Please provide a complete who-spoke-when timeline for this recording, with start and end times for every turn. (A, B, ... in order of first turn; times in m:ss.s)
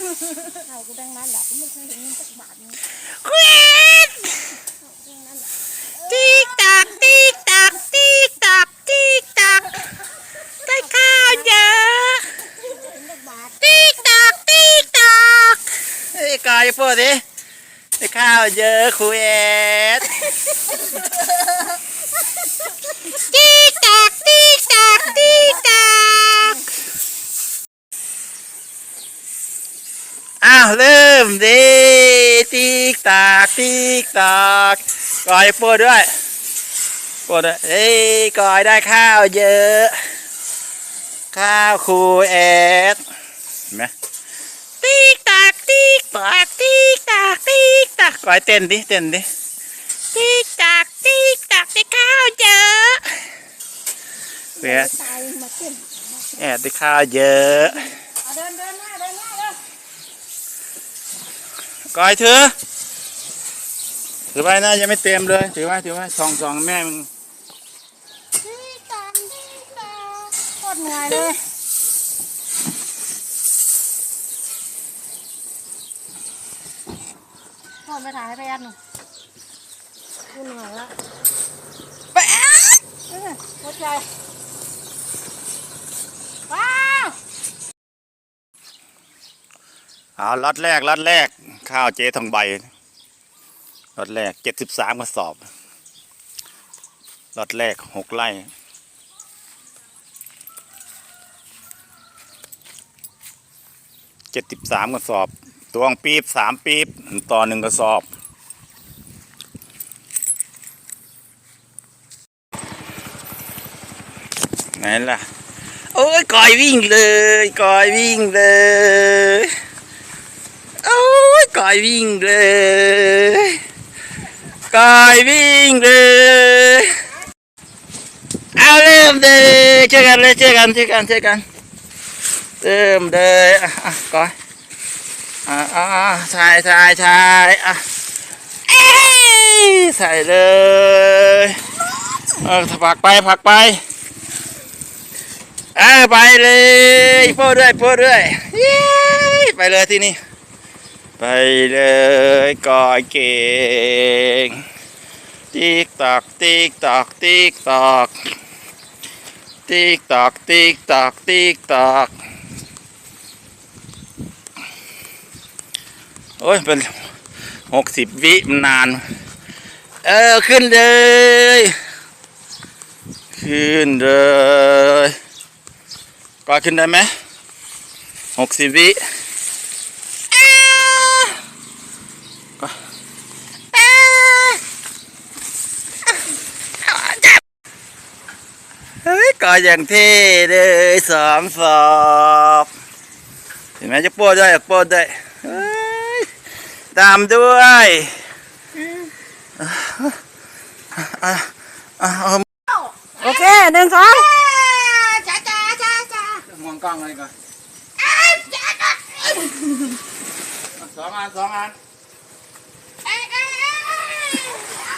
0:00.3-0:02.8 A
0:03.2-0:04.4 B
0:04.7-0:05.5 A
0:06.0-0:07.0 A
0:06.0-0:09.8 B
0:10.6-0:12.3 B
0:11.0-0:11.5 A
0:12.6-0:14.2 A
0:13.6-0:17.2 B
0:18.0-0:20.1 B
0:23.1-0:26.6 B
0:30.4-0:36.1 B
0:37.3-0:40.0 B
0:41.3-0:43.0 B
0:44.8-0:49.2 B
0:50.1-0:53.2 B
0:54.6-0:54.9 B
0:54.6-0:56.0 A
0:56.3-0:57.8 B
0:58.2-0:59.6 A
1:01.9-1:02.5 B
1:04.3-1:07.1 B
1:08.4-1:11.4 A
1:17.8-1:18.8 A
1:20.3-1:20.9 A
1:23.1-1:24.0 A
1:26.5-1:27.2 A
1:30.2-1:32.7 B
1:34.0-1:35.4 B
1:37.3-1:38.5 B
1:44.3-1:48.1 B
1:54.8-1:55.2 B
1:55.9-1:59.5 B
2:00.8-2:03.6 B
2:04.7-2:07.0 B
2:08.5-2:11.4 B
2:12.6-2:14.3 B
2:15.4-2:17.8 B
2:18.7-2:21.6 B
2:22.4-2:23.8 B
2:25.8-2:30.2 B
2:31.2-2:34.6 B
2:35.5-2:38.2 B
2:39.7-2:42.1 B
2:46.4-2:47.0 B
2:47.7-2:49.0 B
2:50.0-2:51.8 B
2:53.3-2:55.2 B
2:56.4-2:57.1 B
2:58.4-2:59.0 B
3:00.3-3:01.4 B
3:03.7-3:04.6 B
3:06.8-3:07.4 B
3:09.0-3:12.7 B
3:13.8-3:16.3 B
3:16.9-3:18.2 B
3:19.6-3:20.2 B
3:20.9-3:22.4 B
3:23.2-3:26.2 A
3:26.0-3:27.3 B
3:28.1-3:29.3 A
3:30.8-3:31.8 B
3:33.1-3:34.5 A